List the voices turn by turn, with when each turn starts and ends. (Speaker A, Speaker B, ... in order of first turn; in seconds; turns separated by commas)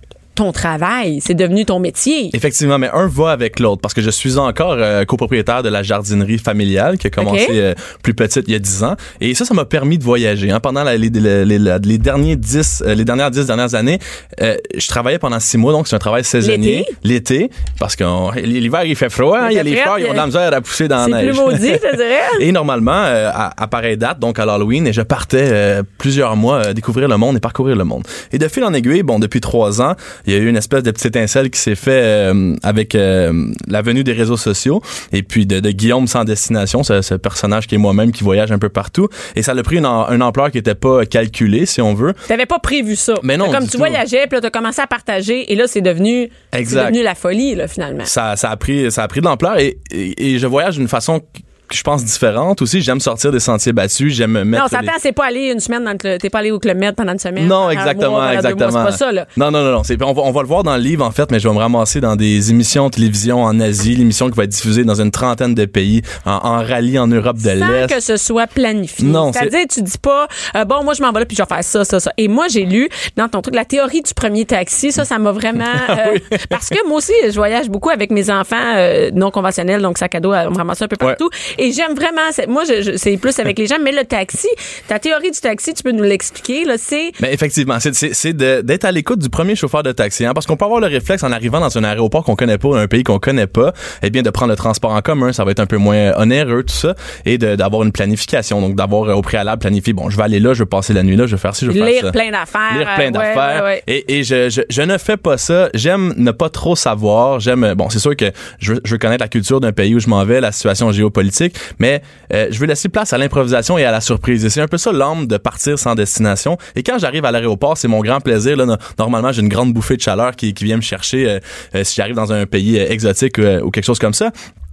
Speaker A: 0.3-2.3, Speaker B: 2.3-21.8, Speaker A: 7.2-7.6, Speaker A: 16.4-16.9, Speaker A: 19.4-20.3, Speaker A: 21.0-22.4, Speaker B: 22.4-42.2, Speaker A: 42.3-48.1, Speaker B: 43.2-44.0, Speaker B: 46.5-47.0, Speaker B: 48.0-54.9, Speaker A: 54.5-59.3, Speaker B: 57.4-68.0, Speaker A: 67.4-87.2, Speaker B: 69.0-69.5, Speaker B: 75.7-76.6, Speaker B: 87.2-102.1, Speaker A: 101.7-103.8, Speaker B: 102.7-124.3